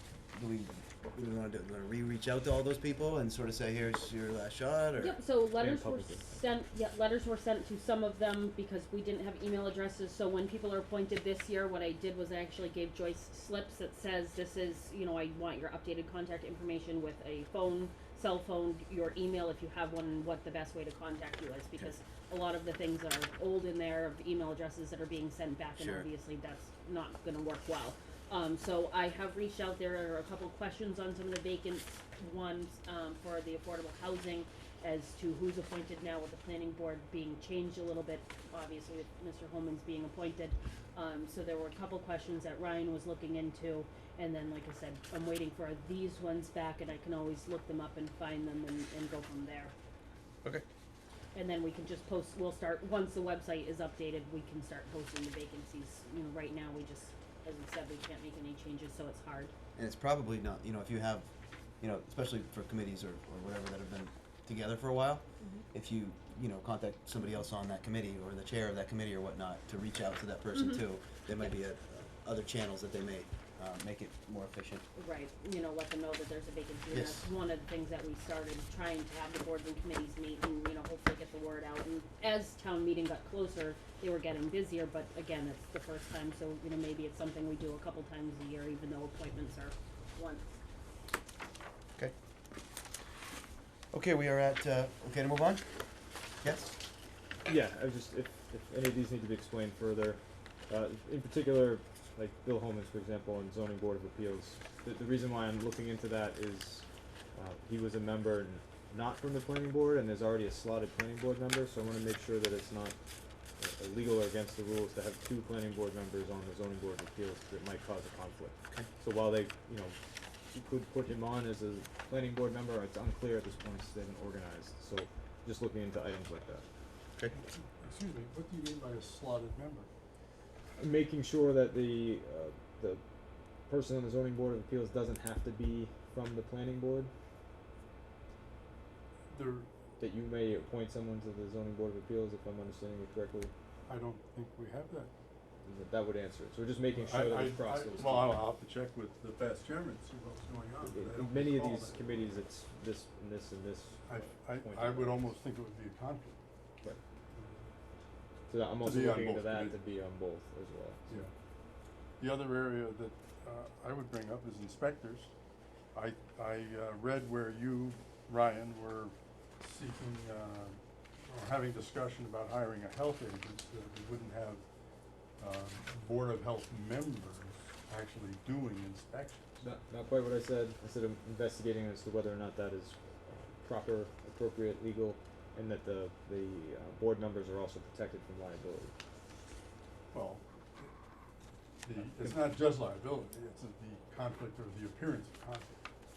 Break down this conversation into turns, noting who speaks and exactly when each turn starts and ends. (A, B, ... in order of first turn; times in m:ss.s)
0:00.3-0:05.2 A
0:05.0-0:49.7 B
0:05.6-0:06.3 C
0:25.8-0:26.1 A
0:51.3-0:59.5 B
0:59.8-1:01.3 A
1:01.8-1:14.8 A
1:05.4-1:05.6 B
1:10.5-1:10.8 B
1:14.9-1:30.4 B
1:16.9-1:17.3 A
1:33.9-1:35.6 A
1:36.4-1:36.7 A
1:37.4-1:53.0 C
1:53.6-2:00.0 C
2:00.5-2:06.6 C
2:07.8-2:09.9 D
2:10.8-2:13.0 C
2:13.7-2:17.1 C
2:19.3-2:19.7 D
2:20.0-2:23.5 C
2:23.9-2:25.1 D
2:25.6-2:28.4 C
2:26.9-2:32.1 D
2:30.8-2:35.3 C
2:34.1-2:36.4 D
2:37.3-2:37.7 D
2:38.5-2:41.1 C
2:38.8-2:39.8 D
2:42.2-2:45.3 D
2:45.9-2:54.6 D
2:55.4-2:59.4 D
2:59.6-3:08.9 C
3:10.1-3:10.9 D
3:11.8-3:15.8 D
3:12.0-3:12.4 C